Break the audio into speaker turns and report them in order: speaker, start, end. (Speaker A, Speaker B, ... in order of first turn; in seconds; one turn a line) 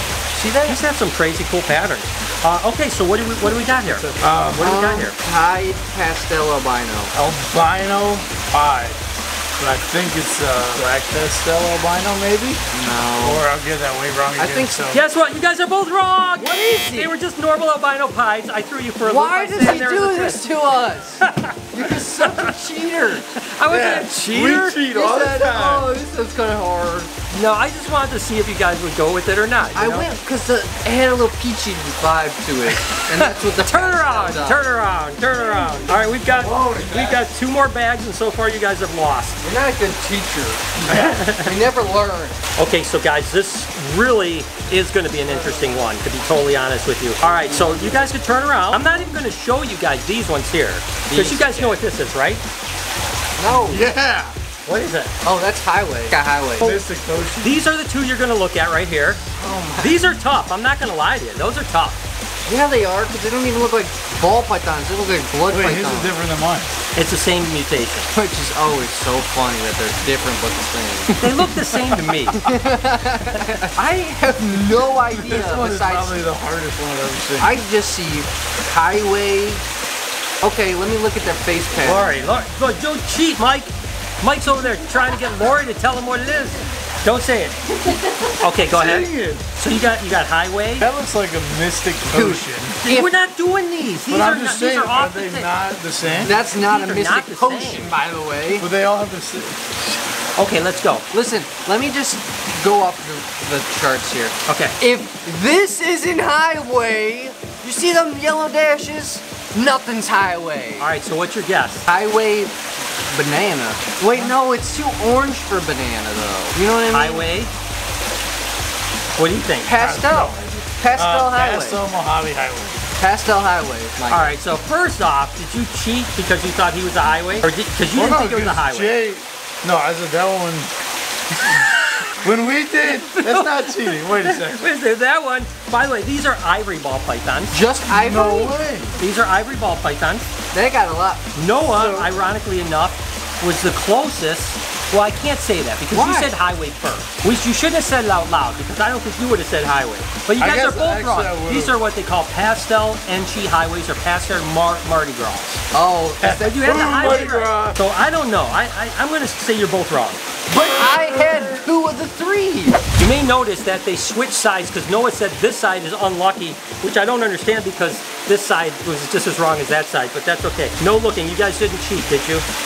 Speaker A: 0.3-0.8
Speaker B: 0.6-5.2
Speaker C: 3.9-4.8
Speaker A: 4.6-7.1
Speaker C: 7.1-9.0
Speaker C: 9.6-12.6
Speaker A: 12.7-13.5
Speaker C: 13.2-15.0
Speaker A: 14.4-14.8
Speaker B: 14.9-20.5
Speaker A: 16.4-17.1
Speaker A: 19.0-23.3
Speaker B: 21.2-21.6
Speaker B: 22.2-22.5
Speaker B: 23.3-24.8
Speaker C: 23.7-25.9
Speaker A: 24.7-27.1
Speaker B: 27.3-30.1
Speaker A: 29.8-34.7
Speaker B: 32.9-39.4
Speaker C: 35.6-37.2
Speaker A: 39.4-42.4
Speaker C: 40.8-41.3
Speaker B: 40.9-41.5
Speaker B: 42.6-52.4
Speaker A: 47.4-48.1
Speaker A: 51.1-51.8
Speaker A: 53.4-53.9
Speaker C: 53.5-54.4
Speaker B: 54.7-55.1
Speaker A: 55.2-56.8
Speaker C: 56.6-57.6
Speaker B: 57.4-59.2
Speaker A: 59.4-60.0
Speaker B: 59.8-62.0
Speaker A: 62.5-66.2
Speaker C: 65.5-66.7
Speaker B: 67.0-68.1
Speaker A: 68.1-71.6
Speaker B: 71.1-72.5
Speaker A: 72.3-76.2
Speaker C: 75.1-77.6
Speaker A: 77.4-79.6
Speaker A: 80.4-82.2
Speaker B: 81.8-87.6
Speaker A: 87.8-88.5
Speaker B: 88.4-90.9
Speaker C: 88.7-89.4
Speaker C: 90.8-92.8
Speaker A: 92.1-93.1
Speaker B: 92.8-95.5
Speaker C: 94.1-96.4
Speaker A: 96.2-98.7
Speaker B: 96.5-97.9
Speaker C: 98.5-99.8
Speaker B: 100.4-101.0
Speaker A: 101.1-110.9
Speaker B: 104.5-104.8
Speaker B: 110.8-111.9
Speaker A: 111.9-112.5
Speaker A: 113.1-117.4
Speaker B: 116.9-117.5
Speaker B: 119.2-119.7
Speaker A: 119.7-121.8
Speaker C: 119.7-122.8
Speaker A: 123.0-124.4
Speaker B: 124.1-129.0
Speaker C: 127.9-130.7
Speaker B: 131.5-132.1
Speaker C: 132.2-134.7
Speaker B: 133.1-137.6
Speaker A: 137.5-138.9
Speaker C: 137.9-139.0
Speaker B: 139.0-140.3
Speaker A: 140.5-141.3
Speaker B: 141.3-155.6
Speaker C: 141.6-142.2
Speaker A: 145.9-146.3
Speaker C: 150.4-151.8
Speaker A: 155.7-156.6
Speaker C: 156.2-157.8
Speaker B: 156.2-160.2
Speaker A: 160.5-162.8
Speaker C: 161.0-161.5
Speaker B: 163.0-172.5